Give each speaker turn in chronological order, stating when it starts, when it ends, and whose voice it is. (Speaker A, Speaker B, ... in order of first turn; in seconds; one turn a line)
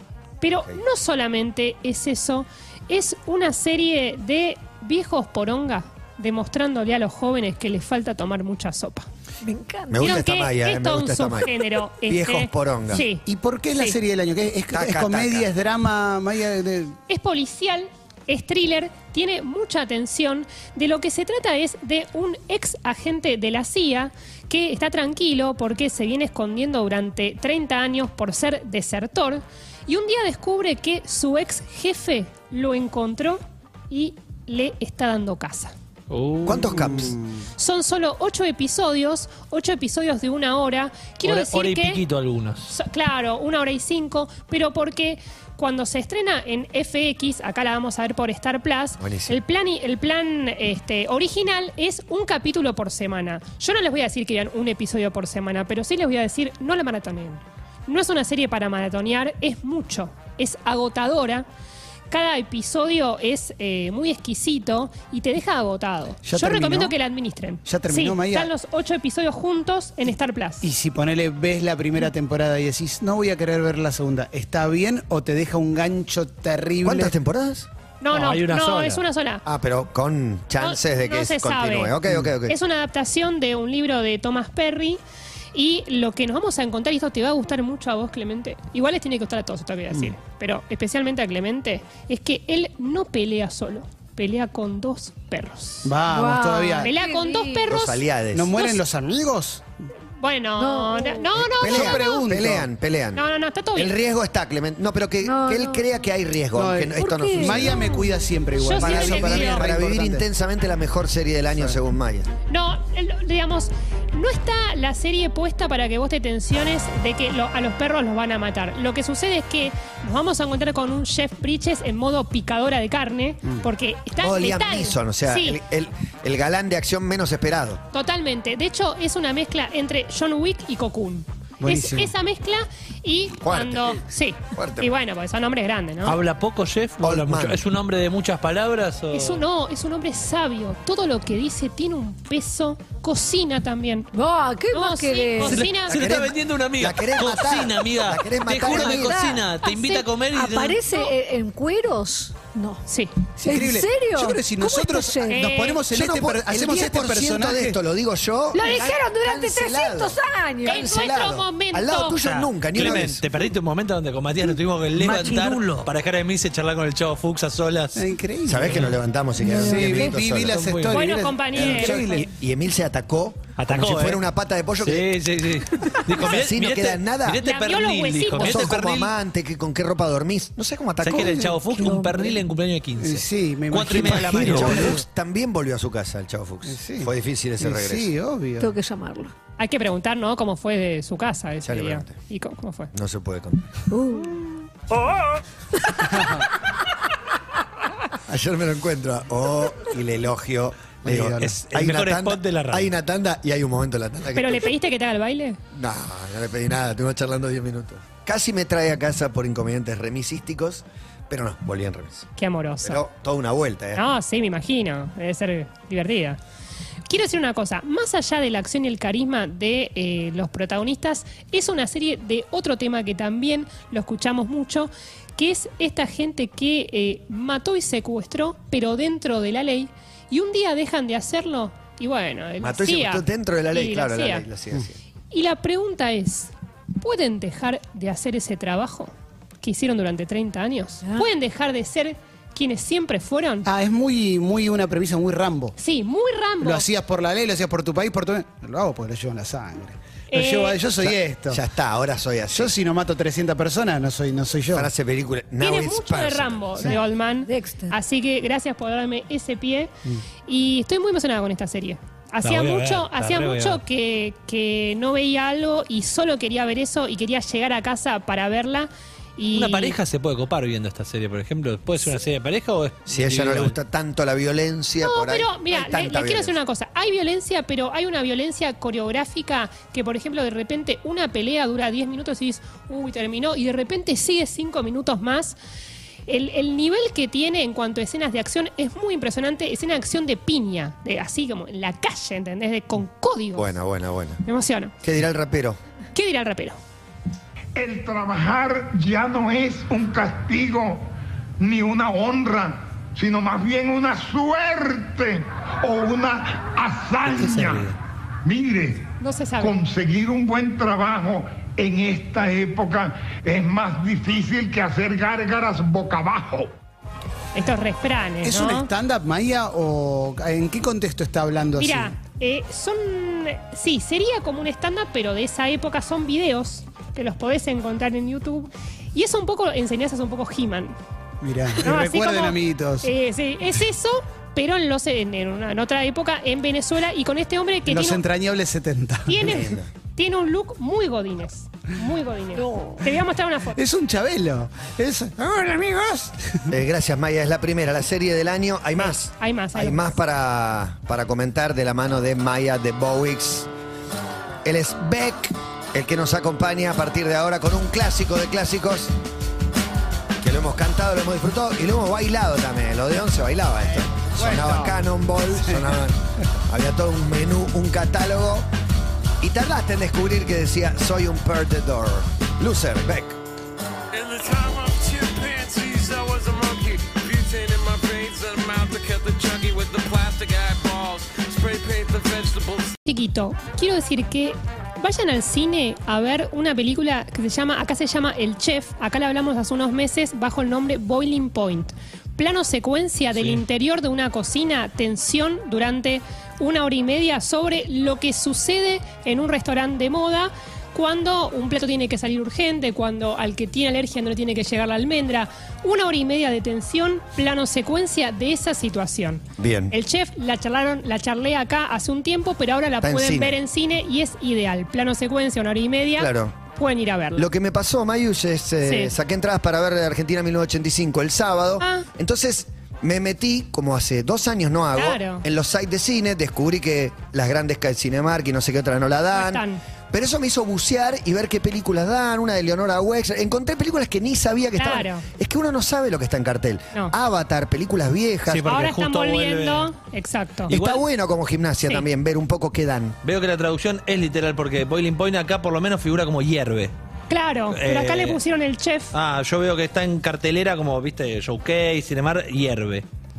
Speaker A: 0.4-9.1
Speaker B: 9.4-10.2
Speaker C: 9.9-13.1
Speaker A: 10.0-13.9
Speaker D: 13.2-16.9
Speaker C: 14.7-15.5
Speaker A: 17.1-35.7
Speaker E: 36.1-37.1
Speaker C: 36.4-37.2
Speaker D: 36.7-37.4
Speaker A: 37.6-42.0
Speaker E: 41.2-42.7
Speaker A: 42.6-61.5
Speaker C: 49.0-49.4
Speaker A: 62.1-70.6
Speaker D: 66.2-67.0
Speaker D: 67.6-68.5
Speaker D: 70.6-77.1
Speaker C: 76.8-77.7
Speaker A: 78.0-79.4
Speaker E: 78.1-79.0
Speaker C: 79.5-82.6
Speaker A: 80.6-85.0
Speaker A: 85.5-95.9
Speaker D: 95.8-96.9
Speaker B: 96.1-97.7
Speaker A: 96.8-98.0
Speaker C: 97.7-98.5
Speaker D: 98.3-99.6
Speaker A: 100.2-102.2
Speaker B: 100.6-101.4
Speaker C: 101.4-107.9
Speaker D: 101.6-102.7
Speaker A: 103.1-103.9
Speaker B: 105.2-105.9
Speaker D: 106.5-110.2
Speaker B: 106.9-108.1
Speaker A: 108.6-109.7
Speaker C: 108.8-112.3
Speaker A: 112.5-125.6
Speaker C: 124.2-127.8
Speaker A: 127.9-136.2
Speaker D: 131.6-132.1
Speaker C: 133.4-134.0
Speaker C: 134.5-134.9
Speaker E: 136.0-139.4
Speaker C: 137.0-137.6
Speaker A: 139.1-144.1
Speaker B: 144.1-145.7
Speaker A: 144.7-146.1
Speaker E: 145.4-150.8
Speaker C: 145.9-149.4
Speaker B: 148.6-152.8
Speaker A: 152.9-153.1
Speaker B: 153.4-155.4
Speaker D: 153.4-157.8
Speaker A: 155.3-155.8
Speaker C: 155.9-163.2
Speaker B: 158.5-160.8
Speaker A: 158.6-158.9
Speaker A: 160.6-162.2
Speaker E: 162.2-168.0
Speaker B: 165.0-165.8
Speaker D: 167.9-168.9
Speaker C: 168.4-170.6
Speaker E: 168.7-168.9
Speaker B: 169.4-170.1
Speaker D: 169.4-172.3
Speaker E: 170.5-171.0
Speaker A: 170.9-172.2
Speaker C: 171.5-175.1
Speaker E: 173.6-174.3
Speaker E: 174.8-179.1
Speaker C: 176.1-177.4
Speaker A: 177.4-178.7
Speaker C: 178.4-181.5
Speaker E: 181.0-185.0
Speaker B: 181.1-182.4
Speaker D: 183.0-185.0
Speaker C: 183.9-188.1
Speaker D: 186.7-188.7
Speaker B: 188.6-189.3
Speaker A: 189.6-192.9
Speaker C: 191.6-192.1
Speaker C: 192.9-193.7
Speaker B: 193.9-194.4
Speaker D: 196.1-196.4
Speaker C: 198.2-204.7
Speaker D: 201.0-201.5
Speaker E: 201.4-202.9
Speaker A: 204.3-205.6
Speaker C: 205.7-212.3
Speaker A: 212.4-213.0
Speaker C: 212.8-214.1
Speaker A: 213.9-216.4
Speaker A: 217.1-234.4
Speaker C: 232.6-234.9
Speaker A: 235.3-243.7
Speaker D: 243.6-245.8
Speaker A: 245.8-246.8
Speaker D: 246.6-251.6
Speaker A: 250.3-250.8
Speaker C: 251.0-252.7
Speaker D: 252.5-254.9
Speaker C: 254.7-256.8
Speaker A: 255.6-259.9
Speaker B: 256.8-257.9
Speaker A: 260.5-270.0
Speaker E: 262.4-263.8
Speaker E: 269.5-273.8
Speaker C: 273.1-276.6
Speaker A: 275.0-285.6
Speaker A: 286.3-293.7
Speaker C: 293.6-294.4
Speaker A: 294.4-294.9
Speaker C: 295.0-295.8
Speaker A: 296.1-296.8
Speaker F: 297.7-316.7
Speaker D: 307.4-307.9
Speaker A: 309.2-309.7
Speaker A: 317.5-318.9
Speaker D: 318.4-322.2
Speaker A: 321.8-330.9
Speaker D: 331.4-333.1
Speaker A: 331.8-338.2
Speaker D: 337.9-339.5
Speaker A: 339.3-343.8
Speaker C: 339.4-339.9
Speaker D: 343.8-346.6
Speaker C: 346.7-353.7
Speaker A: 349.0-350.1
Speaker C: 354.6-359.1
Speaker C: 360.4-368.7
Speaker D: 364.4-364.9
Speaker C: 369.4-373.4
Speaker G: 374.1-383.0
Speaker A: 383.0-417.5
Speaker E: 393.4-393.6
Speaker C: 409.6-409.9
Speaker C: 413.0-413.6
Speaker C: 416.2-416.5
Speaker C: 417.3-438.7
Speaker A: 418.8-419.1
Speaker A: 421.8-422.1
Speaker A: 424.9-425.4
Speaker A: 429.3-429.8
Speaker A: 434.8-435.2
Speaker E: 438.5-439.9
Speaker A: 438.7-440.7
Speaker E: 440.7-441.0
Speaker C: 440.7-443.2
Speaker E: 443.2-446.9
Speaker A: 447.3-449.1
Speaker E: 447.7-448.4
Speaker E: 449.1-453.1